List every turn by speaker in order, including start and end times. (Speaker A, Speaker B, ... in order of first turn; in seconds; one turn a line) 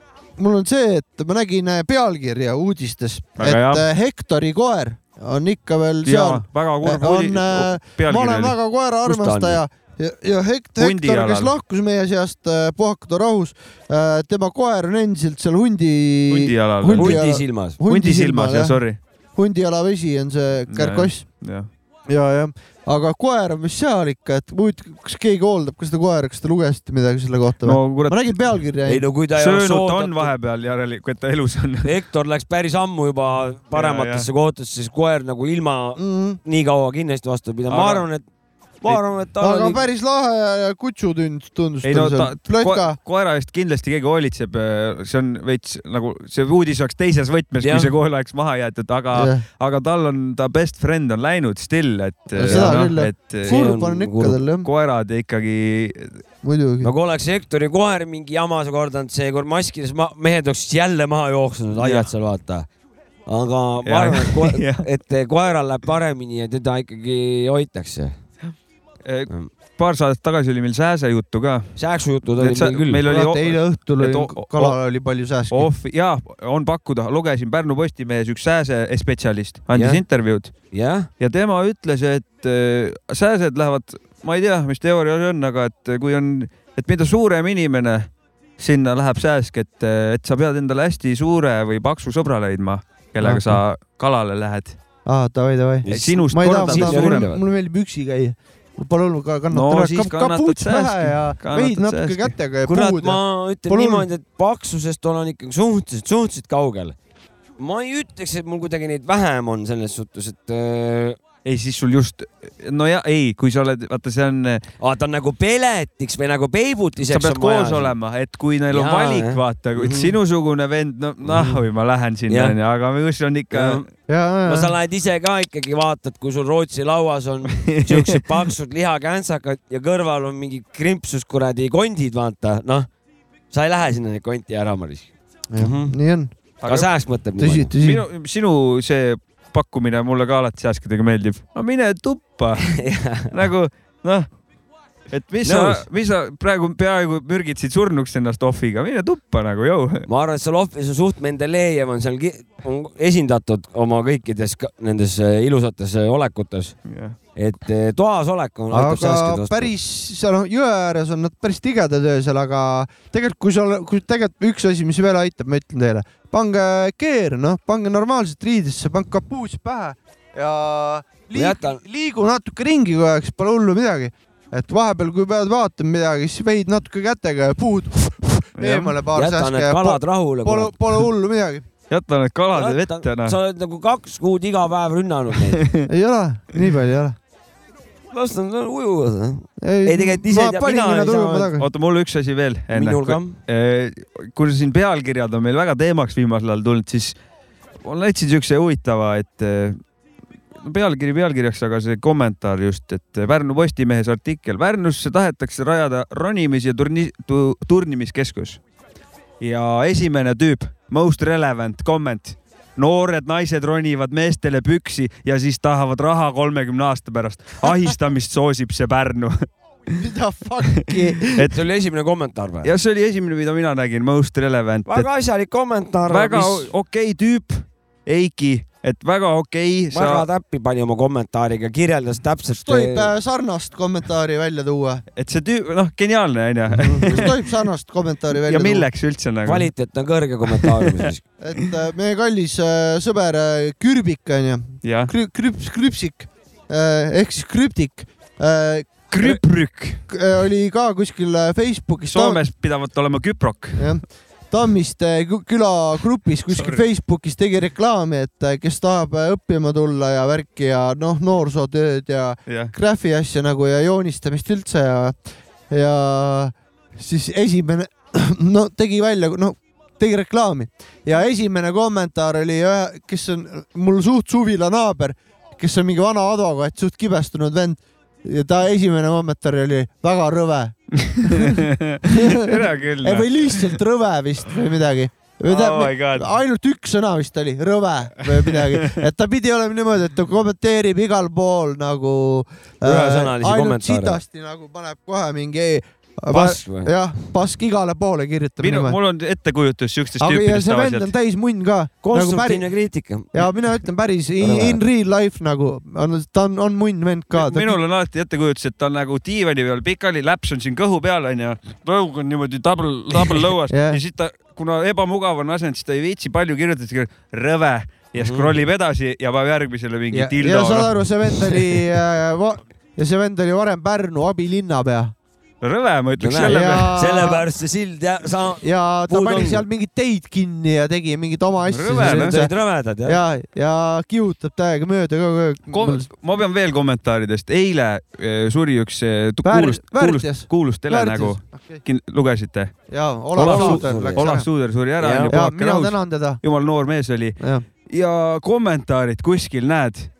Speaker A: 0.4-18.8
Speaker B: 3.4-3.8
Speaker B: 6.0-8.5
Speaker C: 9.0-9.6
Speaker B: 10.8-11.5
Speaker B: 16.3-17.2
Speaker C: 16.9-17.8
Speaker B: 17.8-19.0
Speaker A: 19.4-21.2
Speaker B: 20.7-21.7
Speaker A: 22.1-29.1
Speaker B: 27.6-28.3
Speaker C: 28.8-30.3
Speaker B: 29.3-31.9
Speaker C: 31.8-38.2
Speaker B: 33.7-34.3
Speaker A: 36.0-36.4
Speaker B: 37.7-38.0
Speaker C: 38.8-39.8
Speaker A: 39.4-43.0
Speaker B: 41.8-53.7
Speaker C: 47.6-47.9
Speaker A: 49.1-49.4
Speaker A: 52.3-54.7
Speaker C: 52.5-52.9
Speaker C: 53.4-54.4
Speaker B: 54.6-56.2
Speaker A: 56.4-56.9
Speaker C: 56.8-62.7
Speaker B: 61.8-62.1
Speaker C: 63.3-68.1
Speaker B: 63.8-64.8
Speaker B: 69.0-71.7
Speaker C: 71.8-73.0
Speaker B: 72.4-74.8
Speaker A: 73.0-75.7
Speaker B: 75.5-80.5
Speaker C: 79.7-80.0
Speaker C: 80.7-81.1
Speaker B: 81.2-94.8
Speaker A: 93.2-93.6
Speaker A: 95.0-104.1
Speaker C: 95.8-97.4
Speaker B: 95.9-97.3
Speaker B: 99.5-102.3
Speaker C: 102.7-106.9
Speaker C: 107.6-111.2
Speaker B: 111.4-114.6
Speaker C: 114.8-117.9
Speaker B: 117.1-123.8
Speaker C: 118.7-120.1
Speaker C: 121.2-121.6
Speaker C: 122.3-122.5
Speaker C: 123.5-123.8
Speaker A: 124.1-124.7
Speaker C: 124.5-132.9
Speaker B: 127.7-128.0
Speaker C: 133.5-135.9
Speaker A: 135.5-136.3
Speaker B: 136.6-136.9
Speaker C: 136.6-137.7
Speaker A: 137.4-138.0
Speaker B: 137.8-144.3
Speaker C: 142.7-143.3
Speaker B: 145.1-150.1
Speaker C: 145.4-145.8
Speaker C: 150.1-156.8
Speaker B: 156.9-157.2
Speaker C: 157.3-159.7
Speaker A: 158.7-181.6
Speaker C: 171.3-171.8
Speaker B: 178.6-178.9
Speaker C: 179.1-180.7
Speaker B: 181.9-183.4
Speaker C: 182.5-185.6
Speaker B: 185.6-185.9
Speaker A: 185.8-187.2
Speaker C: 188.1-191.5
Speaker A: 189.6-191.7
Speaker B: 191.6-197.2
Speaker C: 192.7-193.4
Speaker B: 197.8-199.8
Speaker B: 200.6-208.6
Speaker B: 209.4-219.5
Speaker A: 217.6-217.9
Speaker A: 219.9-221.5
Speaker C: 221.4-222.7
Speaker B: 222.6-225.1
Speaker C: 224.9-226.7
Speaker B: 226.1-230.3
Speaker C: 229.9-233.1
Speaker A: 232.5-235.0
Speaker B: 235.2-237.3
Speaker C: 236.8-237.3
Speaker A: 237.0-238.9
Speaker B: 238.4-239.7
Speaker C: 239.4-241.2
Speaker B: 240.6-241.0
Speaker A: 241.4-249.4
Speaker B: 244.8-245.1
Speaker B: 249.1-250.0
Speaker A: 250.1-252.4
Speaker B: 252.1-253.9
Speaker A: 253.8-299.0
Speaker B: 256.5-256.8
Speaker B: 262.5-262.7
Speaker B: 281.0-283.6
Speaker B: 285.5-286.3
Speaker B: 288.4-289.0
Speaker C: 292.8-294.2
Speaker C: 296.3-296.9
Speaker B: 298.6-301.1
Speaker A: 300.2-302.6
Speaker C: 302.0-303.3
Speaker A: 303.3-307.8
Speaker C: 304.4-304.8
Speaker B: 307.3-321.1
Speaker A: 313.7-314.0
Speaker C: 318.1-318.5
Speaker A: 320.1-325.1
Speaker B: 325.6-327.4
Speaker C: 326.2-329.6
Speaker A: 326.4-327.4
Speaker A: 328.6-332.5
Speaker B: 331.7-332.4
Speaker C: 331.9-333.2
Speaker A: 333.0-336.1
Speaker B: 335.7-342.7
Speaker A: 339.4-341.8
Speaker A: 342.9-344.5
Speaker B: 343.3-350.1
Speaker C: 343.4-344.3
Speaker C: 345.0-345.4
Speaker A: 345.3-346.4
Speaker A: 347.4-347.6